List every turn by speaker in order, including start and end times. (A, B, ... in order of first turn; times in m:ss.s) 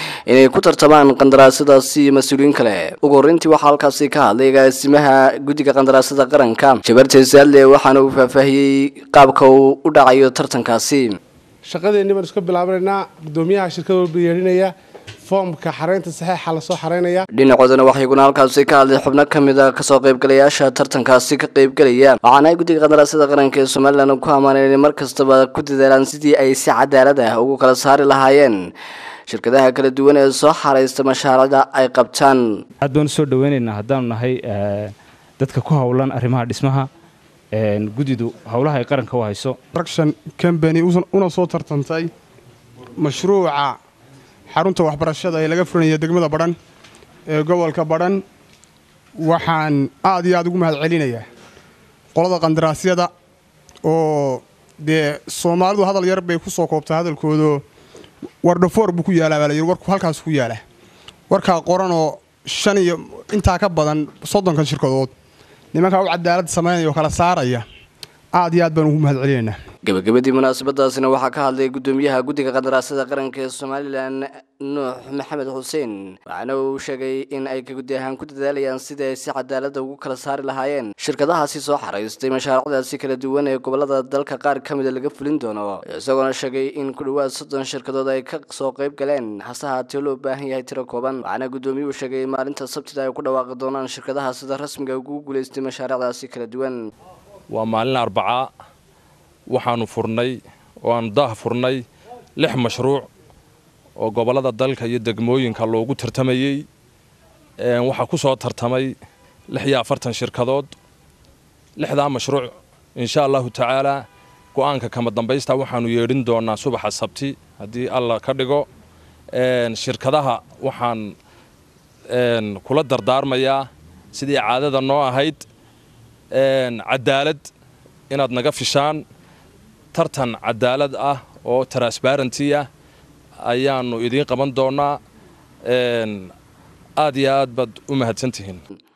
0:00.3-0:11.2 A
0:11.6-0:17.2 B
0:17.3-0:28.6 A
0:29.3-0:32.4 A
0:32.8-0:36.9 C
0:37.5-0:39.6 C
0:39.7-0:42.1 D
0:43.0-0:43.8 D
0:44.5-0:46.6 D
0:47.3-0:48.2 D
0:49.2-0:51.2 D
0:52.1-0:53.1 D
0:53.8-0:57.6 D
0:58.4-1:00.6 D
1:01.3-1:05.1 D
1:05.7-1:07.6 D
1:08.3-1:09.5 D
1:09.8-1:36.8 A
1:37.5-1:38.5 E
1:39.5-1:41.8 E
1:42.4-1:43.1 E
1:44.0-1:46.6 E
1:47.6-1:48.9 E
1:49.5-1:50.7 E
1:51.8-1:54.0 E
1:54.5-1:58.7 E
1:59.3-2:01.1 E
2:02.1-2:05.4 E
2:06.4-2:07.5 E
2:08.1-2:09.0 E
2:09.9-2:12.6 E
2:13.4-2:15.0 E
2:15.7-2:16.3 E
2:17.0-2:18.6 E